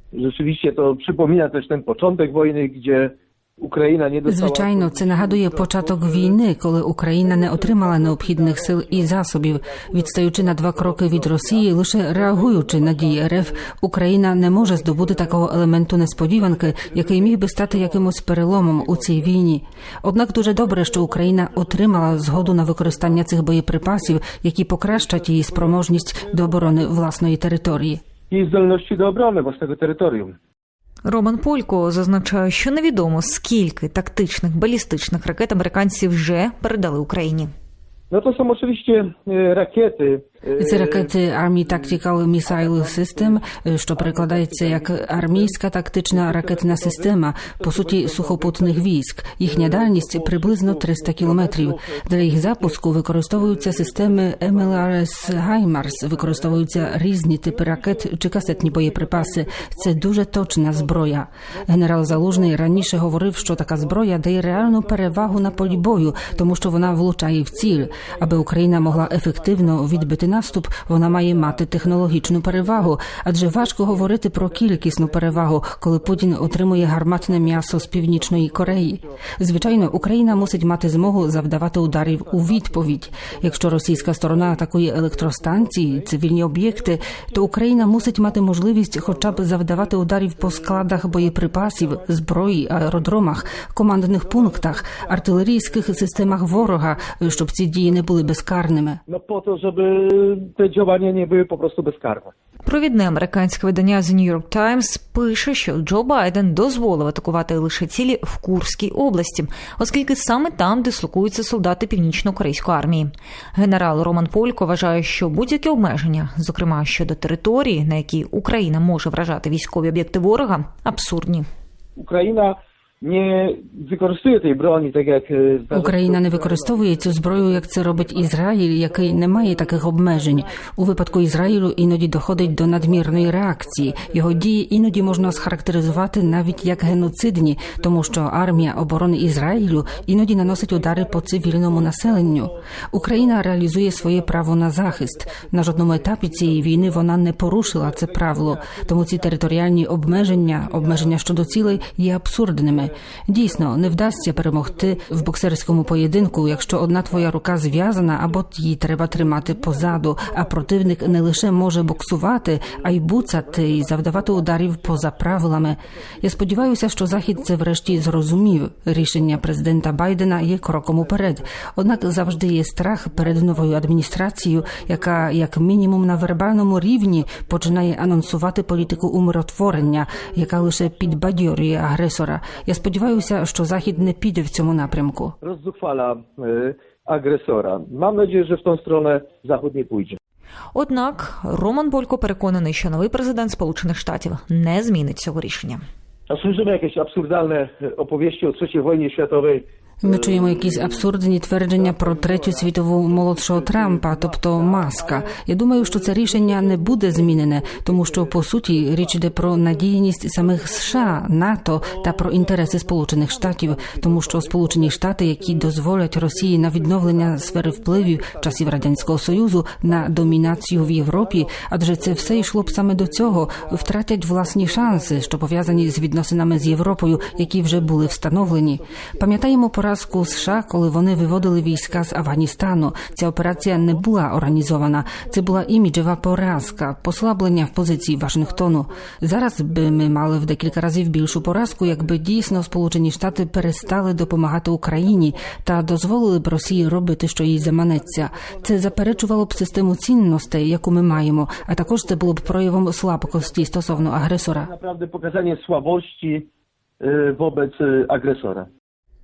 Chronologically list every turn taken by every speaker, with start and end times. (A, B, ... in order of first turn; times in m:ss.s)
0:00.1-0:06.4 A
0:04.3-0:28.0 B
0:07.2-0:13.7 A
0:14.6-0:19.3 A
0:20.5-0:23.3 A
0:25.0-0:26.9 A
0:28.3-0:30.4 A
0:31.0-0:37.5 C
0:38.1-0:41.9 A
0:40.6-1:39.0 B
0:42.4-0:45.6 A
0:46.1-0:48.9 A
0:49.4-1:38.4 A
1:39.1-1:42.3 A
1:42.6-2:01.5 C
2:02.0-2:31.9 A
2:05.7-3:05.3 B
2:32.7-2:38.4 A
2:39.1-2:48.4 A
2:49.1-2:49.4 A
2:50.0-2:55.5 A
2:56.1-3:10.2 A
3:10.7-3:15.8 C
3:16.3-3:21.1 A
3:20.0-4:14.7 B
3:21.7-3:31.2 A
3:31.8-4:04.4 A
4:04.9-4:06.0 A
4:06.6-4:16.5 A
4:17.0-4:18.7 A